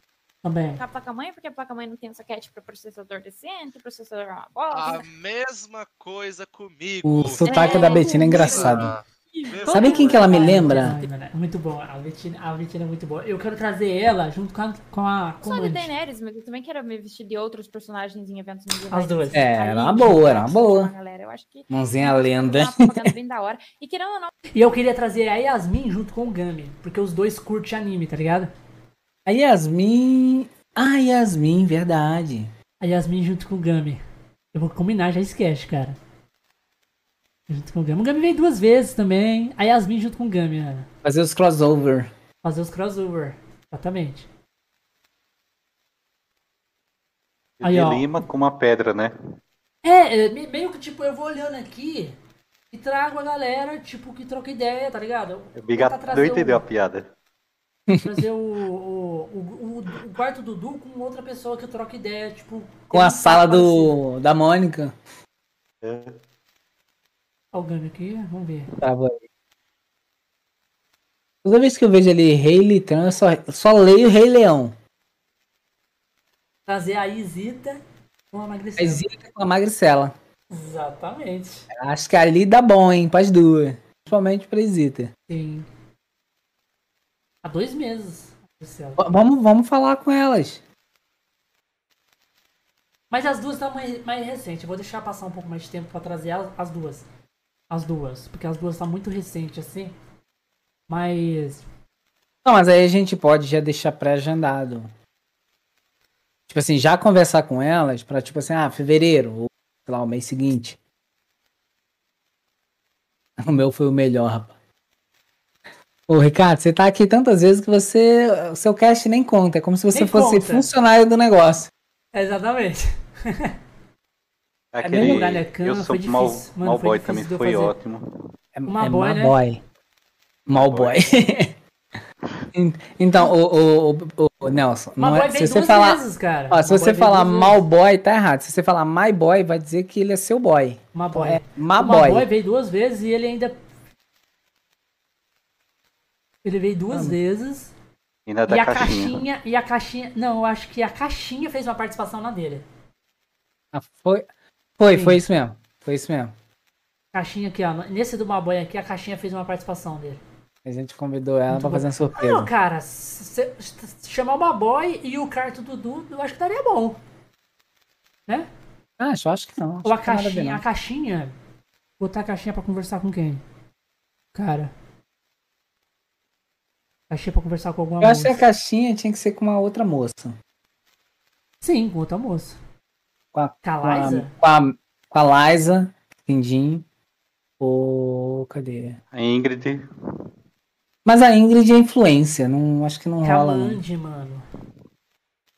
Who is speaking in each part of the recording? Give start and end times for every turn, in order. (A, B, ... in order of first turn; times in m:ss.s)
0:00.4-0:00.8 A
0:00.8-0:05.1 B
0:04.7-0:10.4 C
0:07.0-0:08.9 D
0:07.5-0:08.0 B
0:08.0-0:08.7 A
0:09.7-0:15.9 A
0:09.7-0:11.0 D
0:15.4-0:24.3 B
0:18.9-0:19.5 A
0:19.3-0:20.9 D
0:21.7-0:23.1 D
0:24.6-0:28.5 A
0:29.3-0:32.5 D
0:32.8-0:34.0 A
0:34.5-0:36.0 A
0:37.5-0:40.9 A
0:41.0-0:42.1 D
0:42.4-0:44.3 A
0:47.6-0:49.2 E
0:47.6-0:48.1 A
0:49.8-0:52.2 A
0:52.7-0:56.6 A
0:55.6-0:57.1 E
0:57.9-0:58.2 D
0:58.0-1:04.0 A
1:02.9-1:05.0 D
1:05.8-1:06.2 E
1:07.5-1:08.7 A
1:08.8-1:09.2 D
1:11.4-1:14.8 D
1:16.7-1:17.8 A
1:18.3-1:19.0 A
1:18.8-1:20.2 D
1:20.5-1:21.7 A
1:21.7-1:25.1 D
1:25.3-1:25.7 A
1:27.4-1:29.0 A
1:29.0-1:30.6 D
1:33.1-1:37.1 A
1:37.7-1:40.0 A
1:40.9-1:41.6 A
1:42.4-1:44.9 D
1:46.5-1:50.8 D
1:53.4-1:54.6 D
1:56.1-2:01.7 D
1:59.9-2:00.7 A
2:02.1-2:03.5 A
2:04.7-2:08.3 E
2:04.8-2:05.2 D
2:04.9-2:07.7 A
2:08.6-2:09.6 D
2:08.7-2:09.4 A
2:10.5-2:11.1 E
2:10.5-2:11.5 D
2:12.6-2:22.3 D
2:15.0-2:17.6 A
2:20.9-2:23.6 A
2:26.4-2:27.7 A
2:28.3-2:29.2 E
2:28.5-2:32.6 A
2:33.7-2:34.3 D
2:34.8-2:36.4 D
2:34.9-2:35.2 A
2:37.1-2:40.2 A
2:40.6-2:42.5 D
2:41.5-2:47.0 A
2:49.0-2:50.6 D
2:49.8-2:51.3 A
2:52.0-2:53.4 A
2:54.3-2:54.7 A
2:57.1-2:58.3 A
2:58.0-3:00.4 D
3:01.6-3:02.6 A
3:03.3-3:06.8 D
3:03.6-3:04.3 A
3:07.6-3:09.0 D
3:09.1-3:09.9 E
3:11.0-3:13.8 D
3:13.2-3:14.4 A